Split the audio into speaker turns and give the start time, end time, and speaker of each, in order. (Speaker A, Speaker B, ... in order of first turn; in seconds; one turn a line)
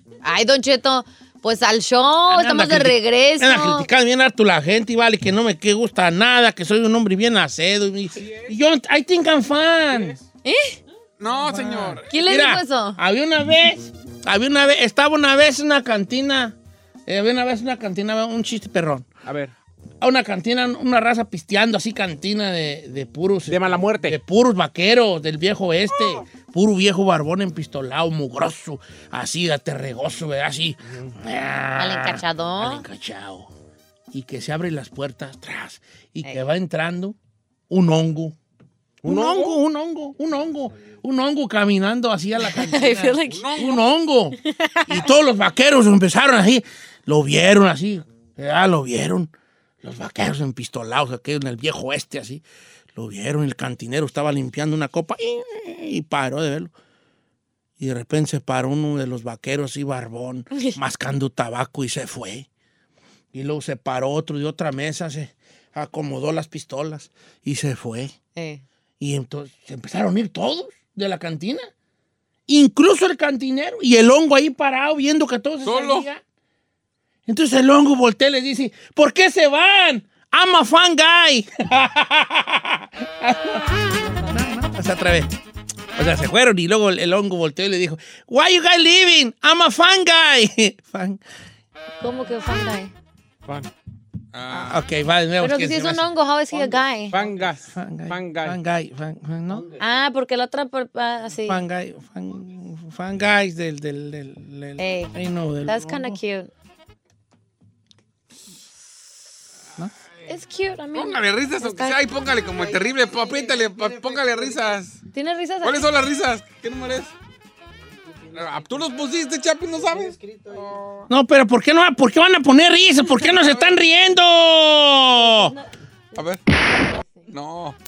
Speaker A: 0.2-3.9
Speaker B: 2.3-10.2
Speaker C: 8.2-8.5
Speaker C: 9.9-10.2
Speaker A: 10.4-10.8
Speaker D: 11.2-12.1
Speaker B: 11.5-16.5
Speaker C: 11.5-11.9
Speaker A: 12.1-13.0
Speaker B: 17.1-19.1
Speaker C: 19.2-19.5
Speaker B: 20.0-33.5
Speaker C: 23.5-24.2
Speaker A: 31.8-32.8
Speaker B: 34.1-37.1
Speaker B: 37.7-38.4
Speaker C: 39.0-39.6
Speaker B: 39.0-44.4
Speaker A: 42.4-43.5
Speaker C: 43.3-43.6
Speaker A: 44.6-45.0
Speaker B: 44.9-52.4
Speaker B: 52.9-56.7
Speaker B: 57.8-62.5
Speaker B: 63.3-68.1
Speaker A: 68.3-68.6
Speaker B: 69.0-71.7
Speaker B: 72.5-76.2
Speaker D: 75.6-76.0
Speaker B: 77.3-83.7
Speaker B: 84.2-85.3
Speaker B: 86.0-91.2
Speaker A: 92.0-92.9
Speaker D: 94.3-94.8
Speaker B: 94.5-99.7
Speaker A: 95.4-97.1
Speaker C: 97.1-98.6
Speaker A: 99.8-101.6
Speaker B: 101.5-106.2
Speaker A: 104.8-106.5
Speaker A: 110.3-112.0
Speaker D: 110.9-115.0
Speaker A: 115.1-115.9
Speaker D: 115.6-117.1
Speaker D: 118.3-120.8
Speaker B: 121.1-125.5
Speaker A: 125.3-125.5
Speaker D: 127.3-127.8